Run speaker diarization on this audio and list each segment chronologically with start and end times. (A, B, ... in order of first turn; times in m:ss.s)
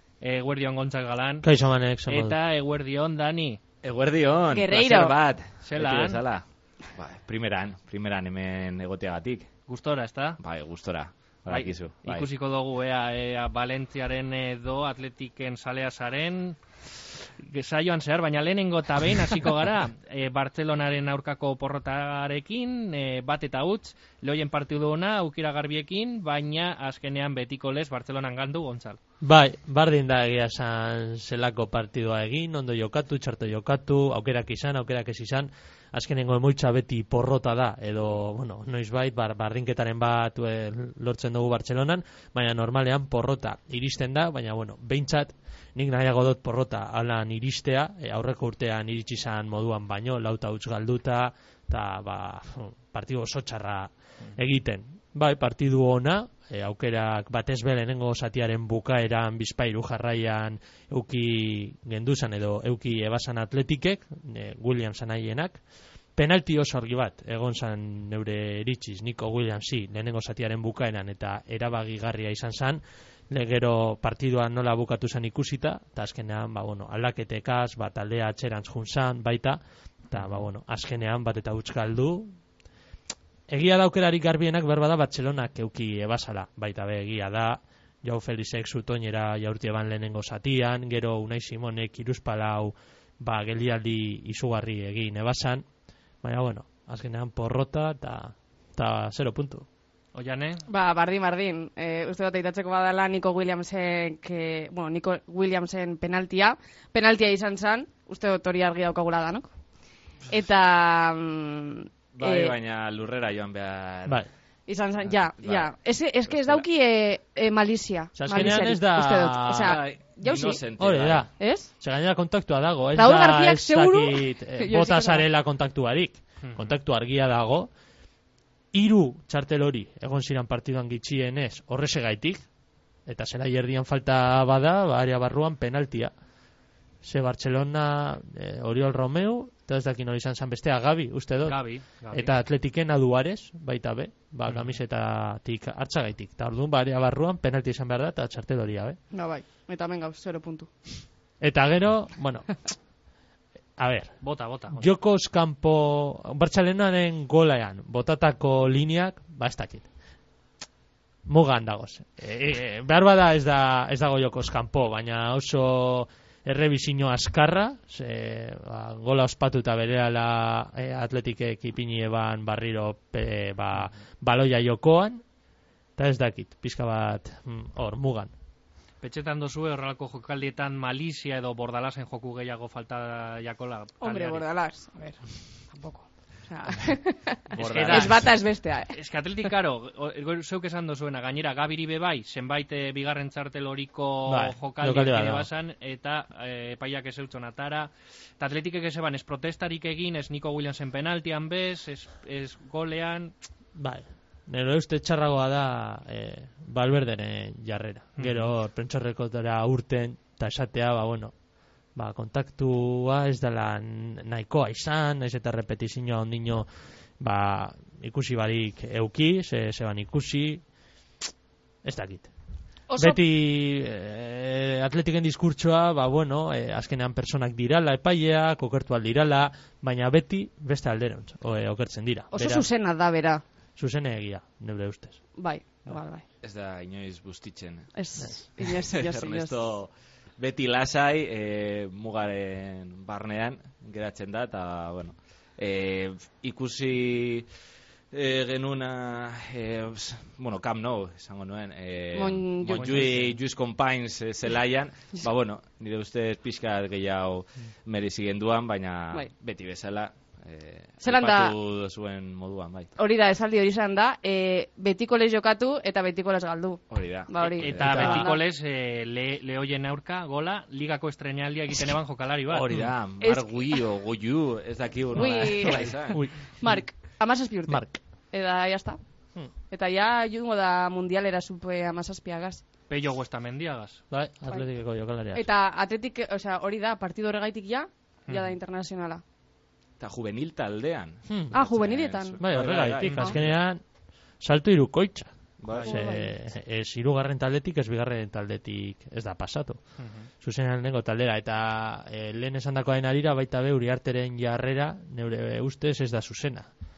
0:00.2-0:01.5 A
0:01.4-0:02.4 B
0:02.1-0:03.6 A
0:03.8-0:09.5 C
0:04.5-0:05.1 D
0:05.6-0:06.2 A
0:09.7-0:10.4 A
0:10.4-0:12.3 C
0:11.5-0:29.0 A
0:29.2-1:05.6 B
1:06.2-1:19.6 B
1:20.1-1:22.3 B
1:23.5-1:35.6 B
1:36.2-1:39.7 B
1:40.1-1:40.6 A
1:40.7-1:49.5 D
1:50.3-1:52.6 D
1:52.1-1:54.2 C
1:54.7-2:00.6 D
1:55.1-1:55.7 C
1:56.3-1:56.6 C
1:58.2-1:59.8 B
1:59.6-2:01.2 C
2:00.8-2:07.7 B
2:01.4-2:01.7 D
2:02.9-2:05.2 D
2:06.4-2:06.8 A
2:08.7-2:12.4 B
2:13.1-2:16.1 B
2:17.0-2:29.0 B
2:21.4-2:22.3 A
2:24.5-2:24.8 A
2:29.1-2:30.7 D
2:31.4-2:32.6 B
2:33.8-2:34.1 B
2:34.2-2:34.8 A
2:34.7-2:39.9 B
2:41.2-2:55.2 B
2:56.0-2:58.3 B
2:59.0-3:04.4 A
3:04.0-3:08.9 D
3:07.5-3:08.3 C
3:07.5-3:23.3 A
3:14.3-3:15.5 B
3:23.8-3:31.3 B
3:28.2-3:28.5 A
3:31.9-3:36.7 B
3:37.2-3:40.6 B
3:41.8-3:42.3 B
3:42.9-3:43.2 D
3:43.0-3:52.7 B
3:52.3-3:53.4 D
3:53.8-3:55.2 B
3:55.4-3:56.2 D
3:56.4-3:57.9 C
3:58.0-3:59.6 D
3:58.6-4:07.5 C
4:08.1-4:22.9 C
4:12.2-4:13.1 D
4:12.7-4:13.4 A
4:21.0-4:21.5 D
4:23.0-4:28.4 D
4:26.9-4:28.2 C
4:27.4-4:32.7 A
4:27.9-4:28.2 B
4:32.5-4:36.2 C
4:33.2-4:33.8 D
4:35.1-4:39.0 D
4:36.1-4:36.8 B
4:37.7-4:38.0 B
4:39.7-4:42.6 D
4:42.9-4:44.0 A
4:44.1-4:45.4 B
4:45.3-4:49.2 D
4:50.0-4:53.5 C
4:51.3-4:51.5 B
4:51.5-4:52.4 D
4:52.4-4:53.8 B
4:53.0-4:53.5 A
4:54.4-5:06.7 B
4:55.6-4:56.0 C
4:55.8-4:56.3 D
5:00.0-5:00.3 A